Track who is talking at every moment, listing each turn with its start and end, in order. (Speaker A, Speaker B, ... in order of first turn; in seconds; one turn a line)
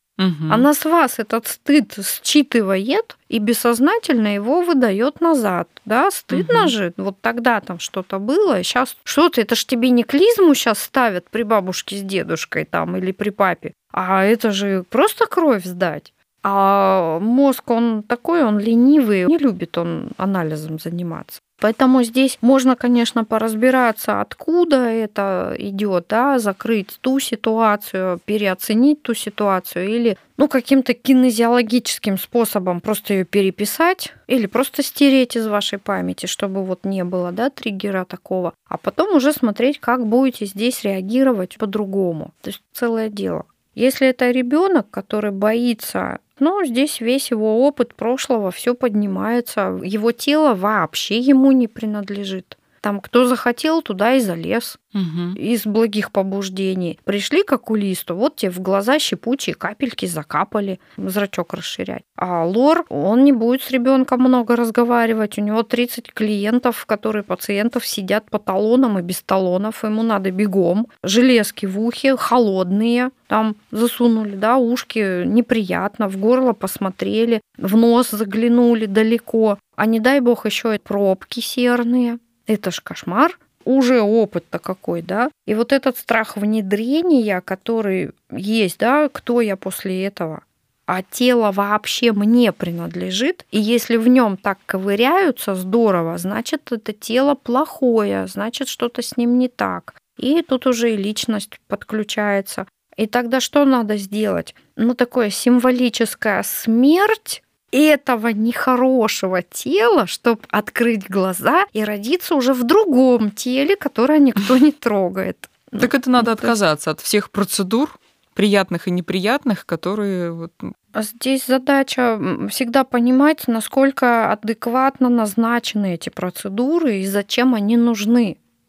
Speaker A: 0.2-0.7
Speaker B: 0.5-54.8
Speaker A: 6.3-6.7
Speaker A: 54.9-55.4
Speaker B: 55.4-116.6
Speaker A: 115.8-120.7
Speaker B: 120.9-128.4